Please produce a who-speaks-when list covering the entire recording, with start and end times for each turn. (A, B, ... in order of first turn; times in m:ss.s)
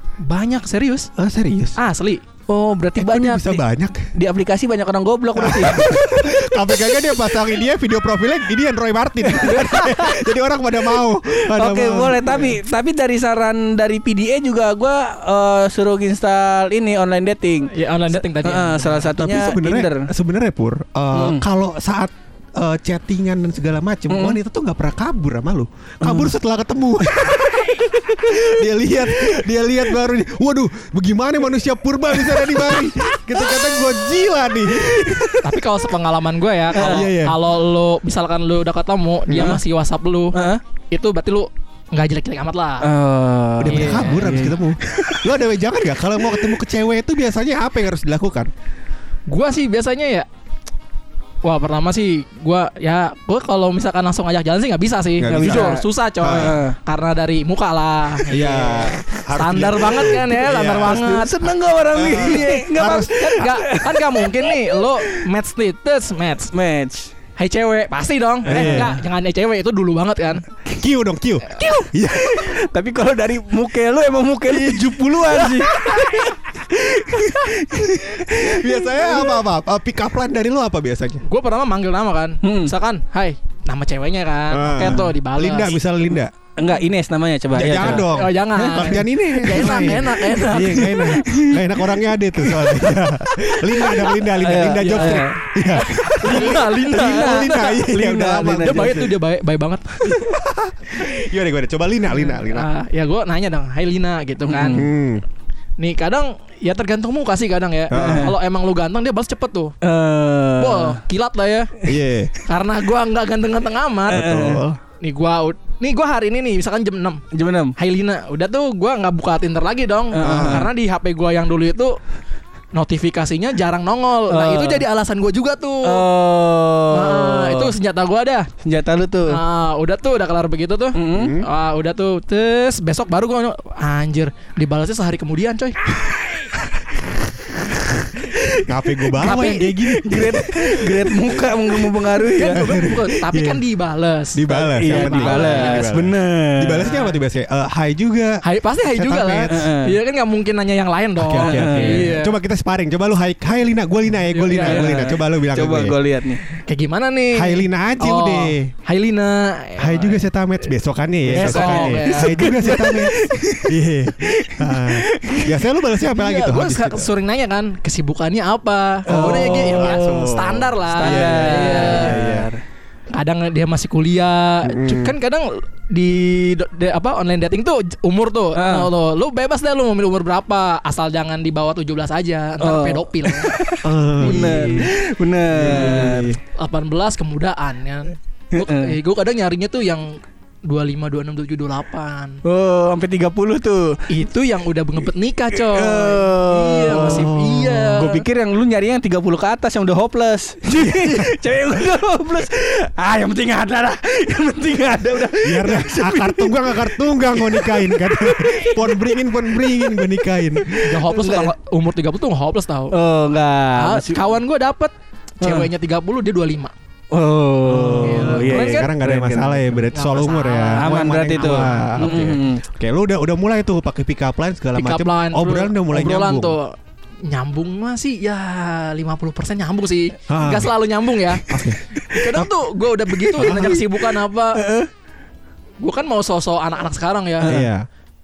0:00.2-0:01.1 A
0:01.2-0:01.8 B
0:01.8-0:02.2 A
0:02.5-0:03.6 C
0:02.9-0:04.1 B
0:04.1-0:06.1 C
0:05.4-0:12.5 B
0:09.3-0:10.2 C
0:11.3-0:20.1 C
0:17.7-0:19.1 A
0:19.1-0:35.5 B
0:21.1-0:21.4 C
0:24.1-0:24.4 C
0:26.0-0:26.3 C
0:32.2-0:33.6 C
0:34.7-0:35.3 C
0:35.4-0:40.3 A
0:36.7-0:37.1 C
0:36.7-0:37.4 B
0:39.3-0:39.6 B
0:39.4-0:39.6 C
0:40.3-0:40.6 C
0:40.9-0:42.9 A
0:42.8-0:45.3 C
0:43.6-0:48.5 B
0:43.6-0:44.2 A
0:49.3-0:50.3 A
0:51.4-0:58.8 A
0:55.2-0:56.6 B
0:55.3-0:56.8 C
0:58.3-1:01.0 B
0:58.3-0:58.8 C
0:59.3-1:01.4 A
1:00.7-1:05.2 C
1:01.9-1:03.5 B
1:02.1-1:06.5 A
1:06.5-1:07.1 C
1:07.4-1:10.4 A
1:08.4-1:09.0 B
1:08.5-1:09.0 C
1:10.8-1:12.6 B
1:12.1-1:19.4 C
1:14.5-1:16.4 B
1:17.7-1:21.2 B
1:21.2-1:25.8 A
1:22.4-1:22.7 C
1:24.5-1:26.3 B
1:26.6-1:30.0 C
1:27.5-1:39.1 B
1:27.7-1:31.4 A
1:30.6-1:31.7 C
1:32.4-1:35.4 C
1:34.8-1:37.8 A
1:36.0-1:39.1 C
1:38.3-1:40.3 A
1:40.0-1:42.7 B
1:42.2-1:44.9 A
1:44.5-1:44.9 C
1:44.7-1:45.2 B
1:45.8-1:49.7 A
1:47.9-1:48.3 B
1:47.9-1:48.3 C
1:49.8-1:51.0 C
1:50.6-1:51.7 A
1:51.8-1:52.4 B
1:52.4-1:54.2 A
1:54.1-1:54.8 B
1:54.1-1:54.7 C
1:55.0-1:57.2 A
1:57.3-1:57.7 C
1:57.8-2:02.0 A
2:00.1-2:00.7 C
2:00.2-2:00.7 B
2:02.7-2:06.0 A
2:04.3-2:04.8 C
2:05.8-2:07.7 C
2:06.9-2:08.5 A
2:08.6-2:09.4 C
2:09.2-2:15.8 A
2:10.9-2:11.4 C
2:11.1-2:11.4 B
2:18.3-2:18.6 C
2:18.3-2:21.2 B
2:19.2-2:20.0 A
2:20.0-2:22.7 C
2:22.3-2:23.6 B
2:22.3-2:25.9 A
2:24.3-2:29.6 B
2:24.5-2:26.9 C
2:26.8-2:27.2 A
2:28.4-2:32.3 A
2:29.5-2:30.0 C
2:31.2-2:36.0 B
2:31.3-2:32.1 C
2:34.3-2:34.9 A
2:34.5-2:36.4 C
2:36.5-2:40.2 A
2:37.3-2:38.7 B
2:39.8-2:47.1 B
2:41.3-2:43.0 A
2:41.3-2:45.6 C
2:46.1-2:52.2 A
2:49.1-2:50.3 C
2:49.1-2:52.5 B
2:50.9-2:52.6 C
2:53.1-3:03.6 A
2:54.6-2:55.1 B
2:58.5-2:58.9 C
3:02.6-3:06.3 C
3:03.8-3:04.9 B
3:04.2-3:04.9 A
3:05.5-3:06.4 B
3:05.7-3:12.4 A
3:08.5-3:09.0 C
3:12.4-3:14.0 C
3:14.1-3:18.2 A
3:15.5-3:31.5 C
3:16.9-3:18.0 B
3:20.8-3:21.3 B
3:25.4-3:30.8 B
3:30.8-3:32.9 A
3:32.9-3:34.3 C
3:33.8-3:36.7 A
3:35.4-3:35.7 C
3:37.1-3:39.8 C
3:37.7-3:46.6 B
3:37.9-3:38.9 A
3:39.9-3:42.4 A
3:40.7-3:42.6 C
3:44.7-3:46.7 A
3:47.3-3:51.5 A
3:50.3-3:50.7 B
3:51.5-3:52.5 B
3:52.0-3:54.6 A
3:53.3-3:54.9 C
3:53.4-3:53.8 B
3:55.8-3:57.6 A
3:57.5-3:57.8 B